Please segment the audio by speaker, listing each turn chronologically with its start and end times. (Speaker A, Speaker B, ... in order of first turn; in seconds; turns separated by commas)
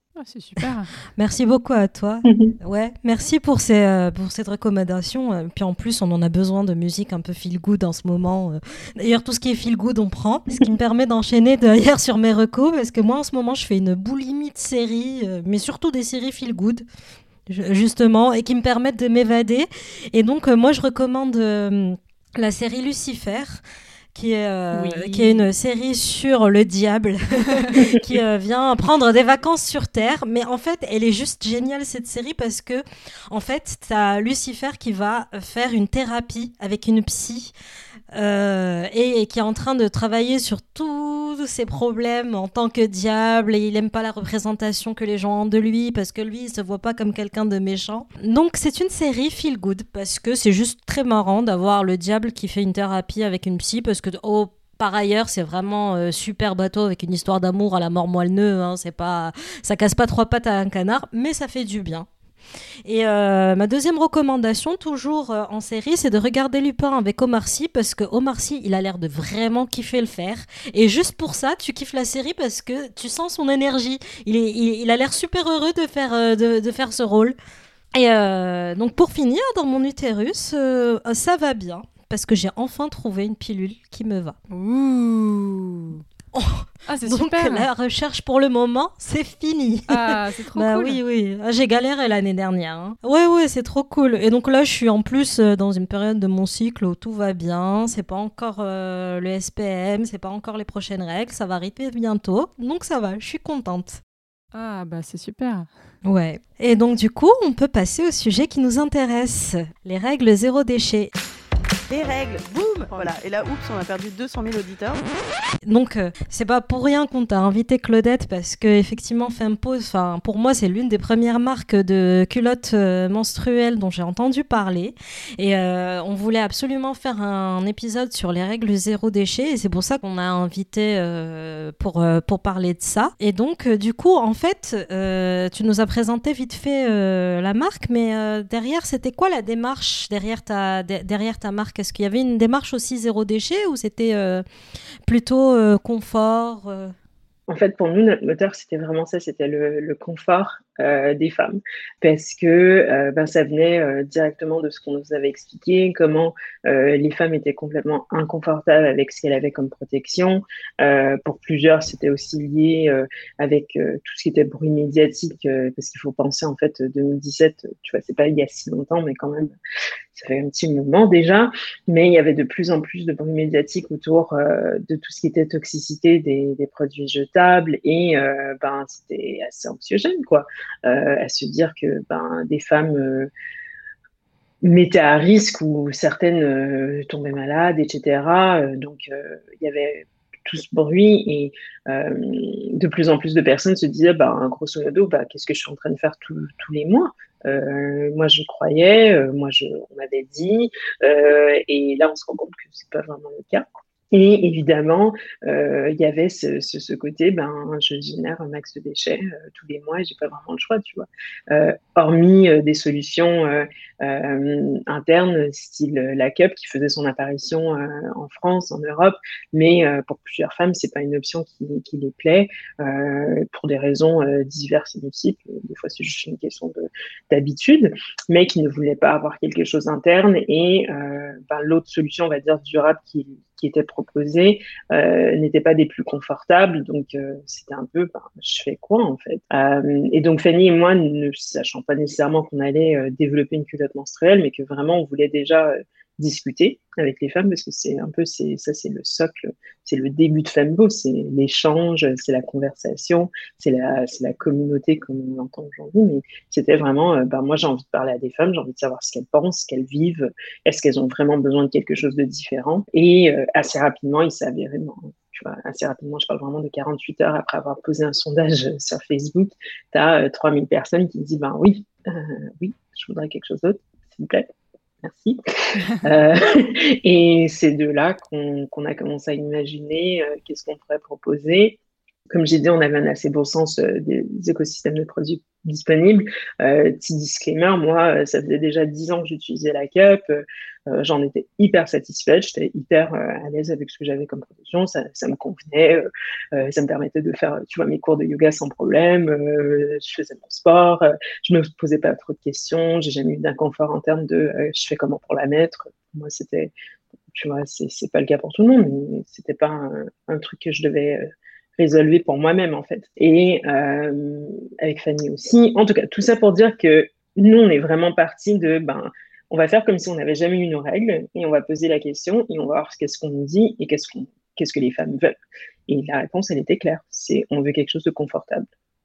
Speaker A: 0.2-0.9, Speaker B: 1.2-16.9, Speaker C: 2.3-2.5, Speaker B: 17.5-23.6, Speaker B: 24.1-37.5, Speaker A: 24.7-25.5, Speaker B: 38.1-62.1, Speaker B: 62.9-77.4, Speaker B: 77.9-84.4, Speaker A: 84.5-86.0, Speaker B: 86.3-104.0, Speaker A: 86.9-87.7, Speaker A: 89.9-91.0, Speaker A: 104.5-105.7, Speaker B: 106.0-111.1, Speaker D: 111.9-115.1, Speaker B: 115.6-144.4, Speaker B: 145.1-146.9, Speaker C: 147.5-169.6, Speaker C: 170.1-183.3, Speaker C: 184.6-274.5, Speaker C: 275.0-275.4, Speaker C: 276.0-281.8, Speaker C: 282.3-306.7, Speaker C: 307.3-325.4, Speaker C: 325.9-328.7